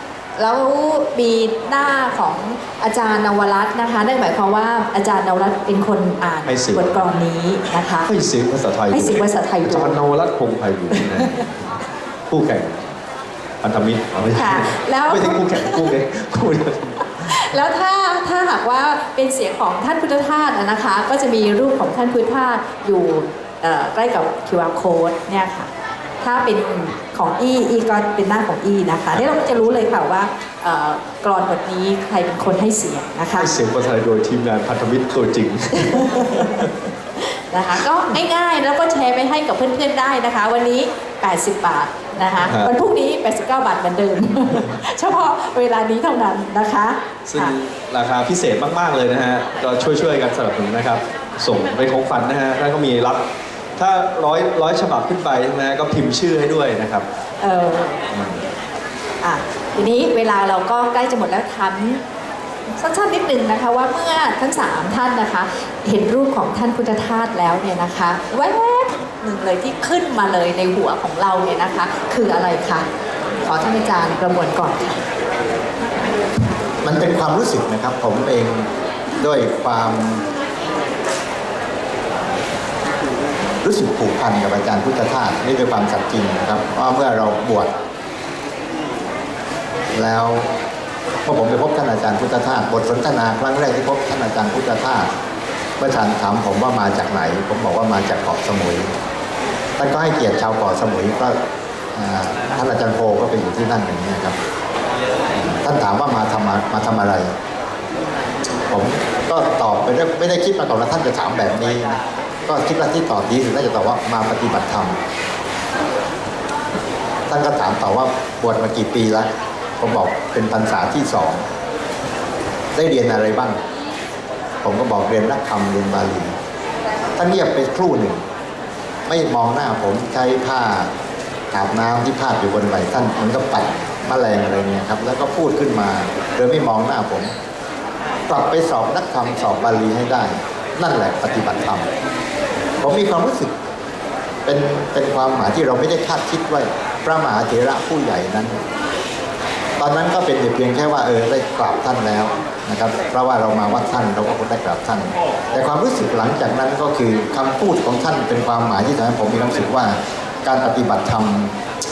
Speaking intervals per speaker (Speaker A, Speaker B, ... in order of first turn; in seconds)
Speaker A: 0.4-8.1, 8.9-10.0, 10.9-11.4, 14.4-15.9, 17.3-25.7, 26.2-33.5, 35.8-36.7, 37.2-47.5, 57.4-58.0, 59.2-62.0, 62.8-72.9, 73.4-75.0
Speaker B: 6.5-7.0, 8.1-11.8, 12.3-13.0, 13.6-17.5, 29.1-29.8, 33.3-36.7, 42.4-42.7, 47.3-53.2, 53.8-57.1, 58.1-58.4
Speaker C: 76.8-80.3, 83.6-87.7, 89.9-90.5, 91.3-95.1, 95.8-98.9, 99.8-101.4, 101.9-104.4, 105.3-107.3, 108.7-115.0, 117.3-121.5, 122.7-123.6, 124.6-126.3, 127.2-128.2, 129.1-130.9, 131.5-137.3, 138.3-141.9, 142.8-143.5, 144.5-148.6, 149.8-161.6